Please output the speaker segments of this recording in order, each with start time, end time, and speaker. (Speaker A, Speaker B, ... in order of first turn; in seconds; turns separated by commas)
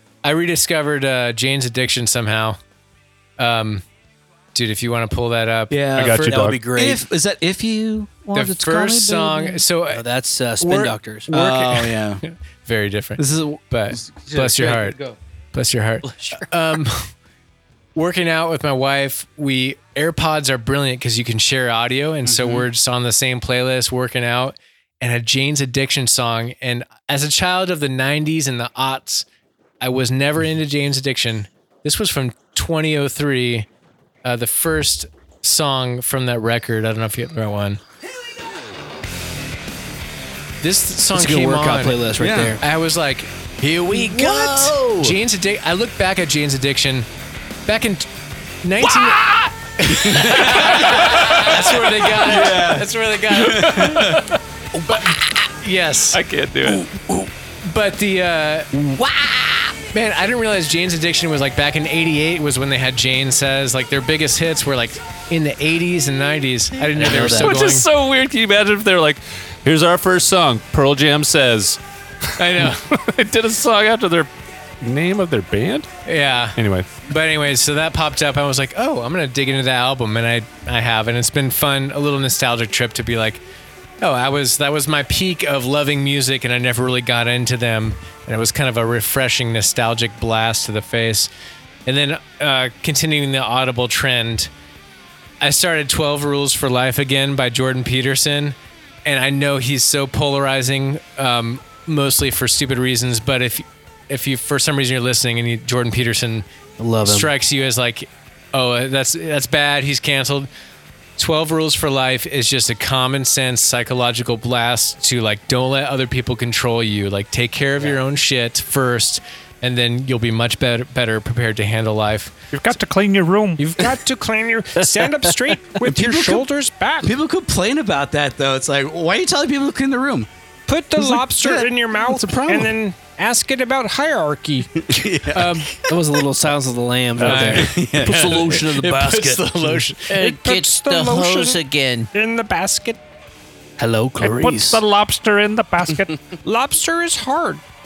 Speaker A: 0.2-2.6, Speaker A: 3.4-3.8, Speaker A: 4.5-6.1, Speaker B: 5.7-9.6, Speaker C: 5.9-6.6, Speaker D: 6.0-7.0, Speaker A: 8.3-10.0, Speaker D: 9.9-11.3, Speaker A: 10.6-15.0, Speaker B: 11.3-12.2, Speaker B: 13.2-14.7, Speaker D: 14.3-15.1, Speaker A: 15.5-17.1, Speaker D: 16.1-16.5, Speaker A: 17.9-29.2, Speaker B: 22.3-22.6, Speaker A: 29.8-33.7, Speaker A: 34.2-37.8, Speaker A: 40.6-43.3, Speaker D: 41.1-42.6, Speaker B: 42.2-42.5, Speaker E: 43.6-45.1, Speaker A: 43.9-47.0, Speaker A: 47.6-48.1, Speaker A: 48.6-54.2, Speaker C: 48.9-49.5, Speaker B: 50.1-51.4, Speaker C: 51.0-52.8, Speaker B: 52.2-52.9, Speaker B: 53.4-54.2, Speaker C: 53.5-54.4, Speaker A: 54.9-56.2, Speaker C: 56.1-56.9, Speaker B: 56.7-57.2, Speaker A: 57.6-58.7, Speaker A: 59.9-67.9, Speaker D: 67.0-67.5, Speaker C: 67.0-71.8, Speaker A: 72.4-72.9, Speaker C: 72.4-75.9, Speaker A: 76.0-83.4, Speaker C: 76.5-76.9, Speaker A: 84.0-91.3, Speaker A: 91.8-94.5, Speaker A: 95.4-106.5, Speaker D: 106.8-107.3, Speaker A: 107.0-110.5, Speaker A: 111.2-122.3, Speaker F: 122.5-127.2, Speaker A: 123.6-123.9, Speaker B: 125.8-126.5, Speaker B: 127.0-130.3, Speaker F: 130.7-135.6, Speaker B: 130.9-132.8, Speaker B: 134.8-135.8, Speaker A: 135.3-135.7, Speaker D: 135.9-139.0, Speaker C: 137.2-139.4, Speaker A: 137.2-140.1, Speaker B: 137.5-138.6, Speaker E: 140.1-142.1, Speaker F: 140.2-141.6, Speaker F: 142.1-143.0, Speaker D: 143.8-144.8, Speaker C: 144.2-146.2, Speaker F: 146.4-147.6